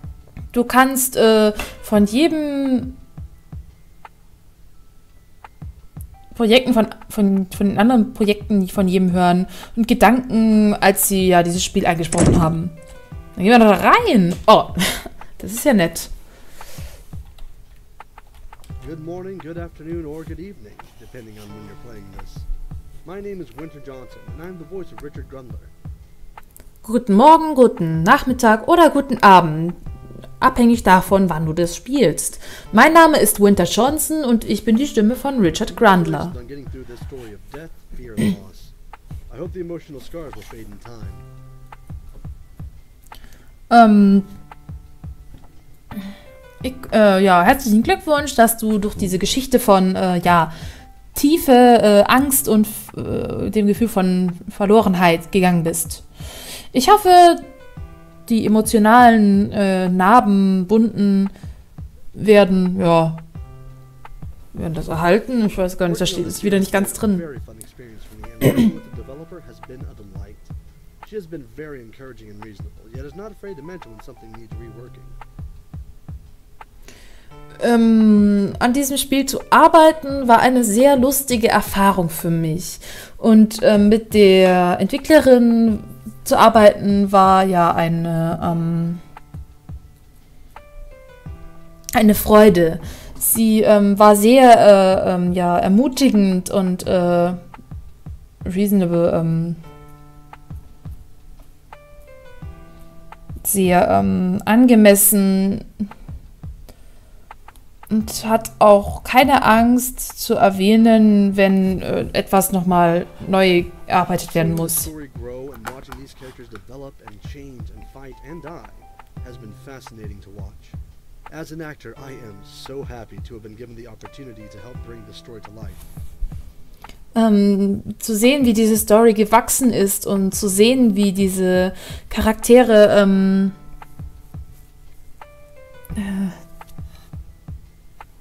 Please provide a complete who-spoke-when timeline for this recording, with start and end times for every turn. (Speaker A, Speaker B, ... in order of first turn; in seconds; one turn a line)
Speaker A: 0.5-3.0
Speaker A: 6.3-12.8
Speaker A: 13.4-16.1
Speaker B: 18.8-22.5
Speaker B: 23.0-25.7
Speaker A: 26.8-29.8
Speaker A: 30.4-36.4
Speaker B: 35.6-38.7
Speaker B: 39.3-41.3
Speaker A: 43.7-44.3
Speaker A: 46.6-50.5
Speaker A: 51.1-56.0
Speaker A: 56.7-57.5
Speaker A: 58.3-61.3
Speaker A: 62.1-63.2
Speaker A: 64.5-67.2
Speaker B: 65.8-70.5
Speaker B: 71.0-75.2
Speaker A: 77.6-89.0
Speaker A: 92.0-97.4
Speaker A: 98.5-99.6
Speaker A: 103.4-105.7
Speaker A: 107.9-114.9
Speaker B: 114.3-120.8
Speaker B: 121.3-125.8
Speaker A: 127.2-133.6
Speaker A: 135.9-136.4